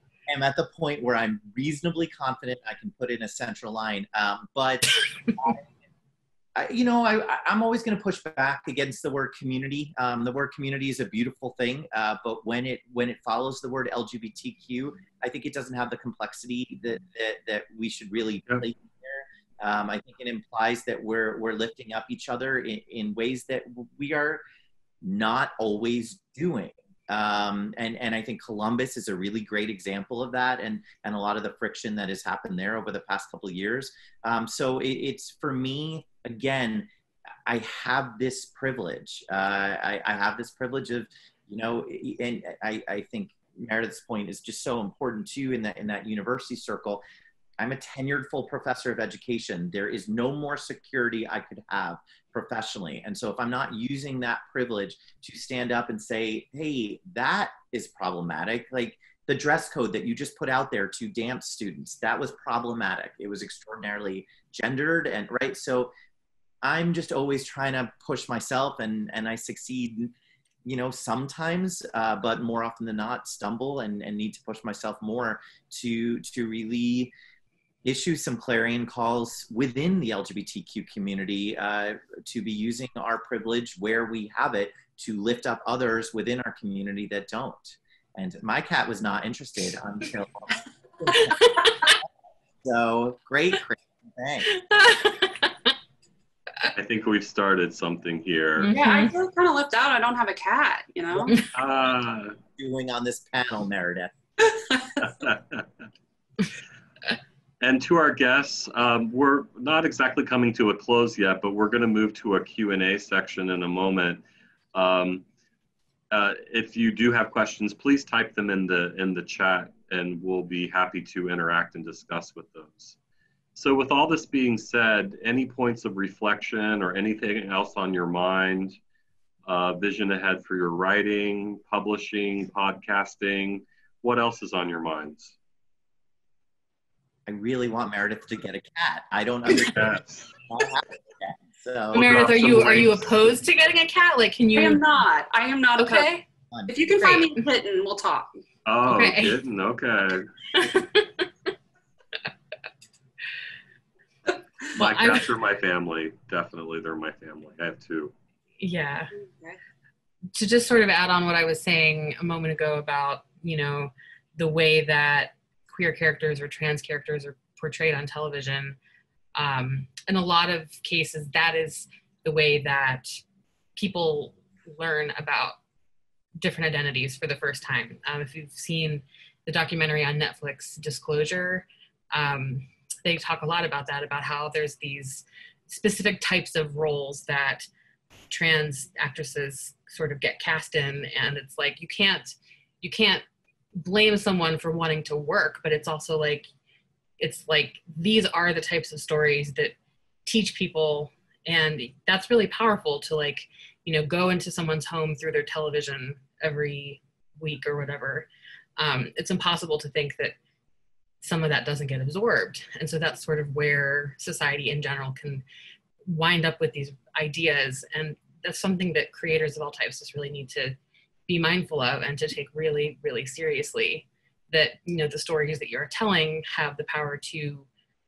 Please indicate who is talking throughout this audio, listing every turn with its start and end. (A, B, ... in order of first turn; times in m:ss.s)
0:00.3-0:05.6 A
0:06.6-0:24.4 A
0:25.0-0:36.9 A
0:37.4-0:47.0 A
0:47.6-1:05.9 A
1:06.6-1:10.1 A
1:10.6-1:17.1 A
1:17.8-1:32.0 A
1:32.6-1:34.6 A
1:34.6-1:35.5 B
1:36.7-1:38.7 C
1:38.6-1:39.1 B
1:38.7-1:41.4 D
1:41.5-1:42.4 C
1:42.6-1:44.1 A
1:45.1-1:45.6 C
1:47.6-1:54.2 C
1:54.7-1:55.2 C
1:56.1-2:03.0 C
2:03.5-2:08.8 C
2:09.4-2:15.4 C
2:17.2-2:22.6 A
2:19.6-2:20.3 C
2:21.9-2:24.8 B
2:21.9-2:23.0 C
2:24.5-2:28.3 D
2:25.8-2:26.2 B
2:26.9-2:27.4 B
2:28.6-2:30.3 C
2:28.9-2:29.4 B
2:30.5-2:31.3 B
2:34.7-2:38.1 C
2:34.8-2:35.3 B
2:38.6-2:39.1 B
2:39.2-2:39.6 D
2:40.3-2:48.8 B
2:49.3-2:53.2 B
2:53.8-2:55.6 B
2:56.4-3:07.6 B
3:08.3-3:13.2 B
3:13.8-3:16.5 B
3:17.2-3:30.4 B
3:31.2-3:35.4 B
3:36.1-3:40.8 B
3:41.3-3:47.7 B